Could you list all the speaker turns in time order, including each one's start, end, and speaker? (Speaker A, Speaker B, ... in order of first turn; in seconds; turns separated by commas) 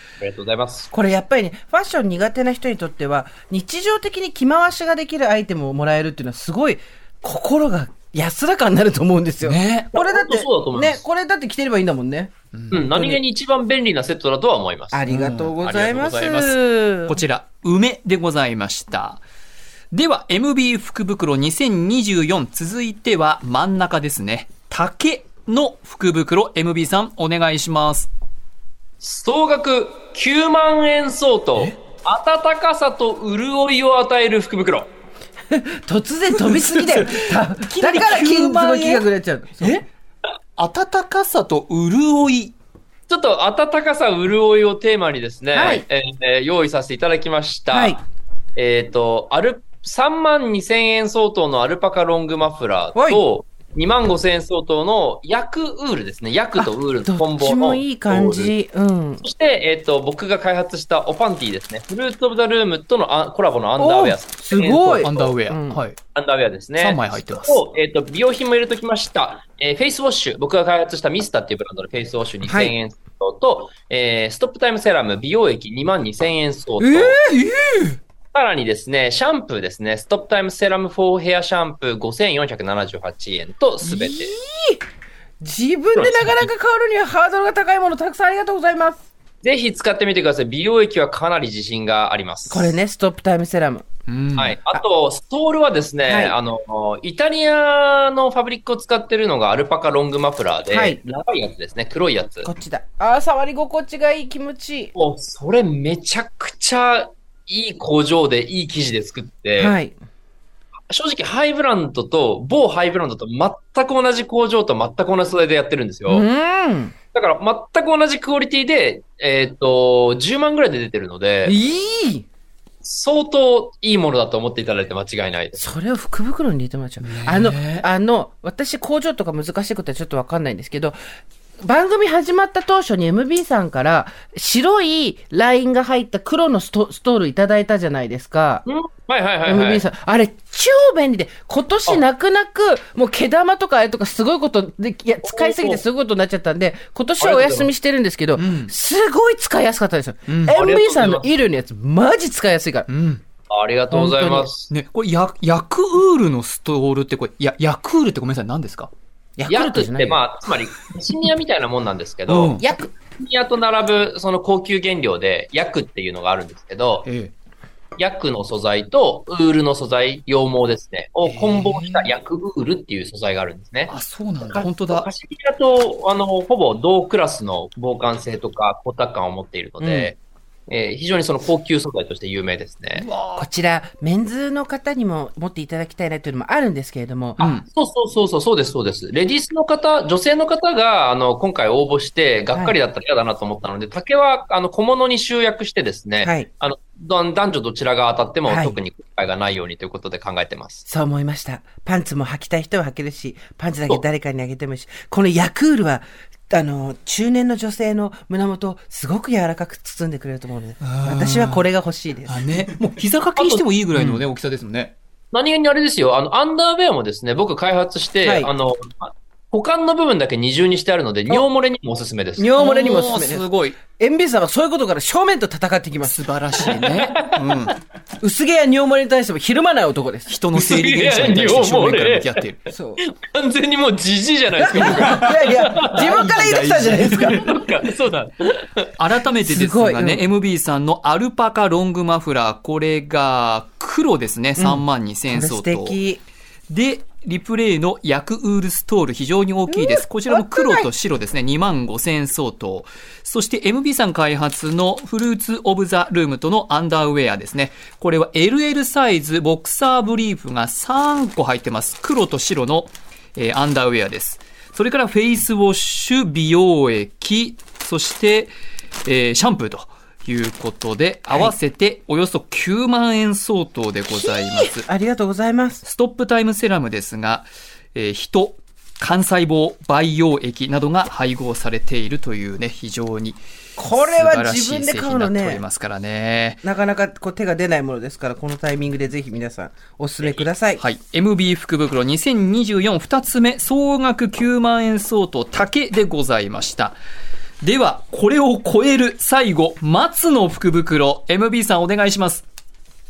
Speaker A: 0.2-0.9, Speaker B: 0.9-13.2, Speaker C: 9.4-9.9, Speaker A: 9.9-11.0, Speaker C: 12.5-12.8, Speaker A: 12.7-15.0, Speaker B: 14.9-17.2, Speaker C: 15.1-19.2, Speaker C: 19.9-28.1, Speaker A: 29.0-34.9, Speaker B: 35.5-39.8, Speaker C: 36.4-39.1, Speaker C: 40.6-42.5, Speaker A: 43.1-48.0, Speaker B: 45.5-45.8, Speaker B: 47.7-48.0, Speaker A: 48.6-58.5, Speaker B: 53.0-53.2, Speaker B: 56.6-59.2, Speaker A: 59.2-65.3, Speaker B: 63.8-65.8, Speaker C: 65.0-66.0, Speaker A: 66.1-77.2, Speaker C: 66.8-67.6, Speaker B: 72.5-72.7, Speaker B: 76.8-77.7, Speaker C: 77.3-77.9, Speaker A: 78.3-84.3, Speaker B: 83.8-84.8, Speaker B: 85.4-89.0, Speaker A: 86.0-86.2, Speaker A: 89.4-92.8, Speaker B: 92.5-93.8, Speaker C: 94.1-94.6, Speaker A: 94.4-102.5, Speaker B: 96.1-96.4, Speaker B: 100.7-101.0, Speaker B: 102.4-104.9, Speaker A: 105.0-109.8, Speaker B: 109.6-110.0, Speaker A: 110.9-116.2, Speaker B: 116.1-116.9, Speaker A: 117.1-121.5, Speaker B: 121.5-122.2, Speaker A: 122.8-125.6, Speaker B: 125.6-131.0, Speaker C: 127.0-127.9, Speaker B: 131.6-138.6, Speaker A: 138.7-139.8, Speaker B: 139.5-152.9, Speaker A: 145.2-145.8, Speaker A: 147.2-147.7, Speaker C: 148.4-148.7, Speaker C: 150.3-150.6, Speaker A: 150.5-151.3, Speaker C: 152.9-153.2, Speaker A: 153.5-154.7, Speaker B: 153.9-154.5, Speaker C: 154.7-158.9, Speaker B: 159.4-160.2, Speaker A: 159.5-167.1, Speaker C: 162.3-162.6, Speaker B: 162.6-162.9, Speaker C: 167.1-167.3, Speaker A: 168.0-173.9, Speaker C: 171.2-172.1, Speaker C: 173.9-175.1, Speaker A: 174.5-180.2, Speaker B: 179.8-180.1, Speaker A: 180.7-183.1, Speaker C: 182.9-183.5, Speaker B: 183.4-187.5, Speaker C: 187.4-187.7, Speaker A: 187.7-200.8, Speaker B: 196.2-196.5, Speaker B: 198.5-198.8, Speaker B: 200.9-212.5, Speaker C: 210.8-211.7, Speaker C: 212.3-214.9, Speaker A: 213.4-213.6, Speaker A: 215.3-222.5, Speaker B: 218.2-218.5, Speaker B: 222.4-226.8, Speaker C: 222.6-223.8, Speaker C: 226.0-227.8, Speaker A: 226.7-227.4, Speaker B: 228.2-230.4, Speaker C: 230.3-232.6, Speaker A: 230.6-232.4, Speaker B: 232.7-233.0, Speaker A: 233.0-236.2, Speaker B: 234.6-237.4, Speaker C: 235.8-237.4, Speaker A: 237.0-238.9, Speaker C: 239.0-246.0, Speaker B: 239.4-240.2, Speaker B: 244.6-246.2, Speaker C: 246.7-268.5, Speaker B: 249.7-250.9, Speaker C: 269.1-274.9, Speaker B: 274.1-275.8, Speaker C: 275.8-286.6, Speaker B: 283.8-285.6, Speaker B: 286.6-290.8, Speaker C: 290.8-297.0, Speaker C: 297.6-302.5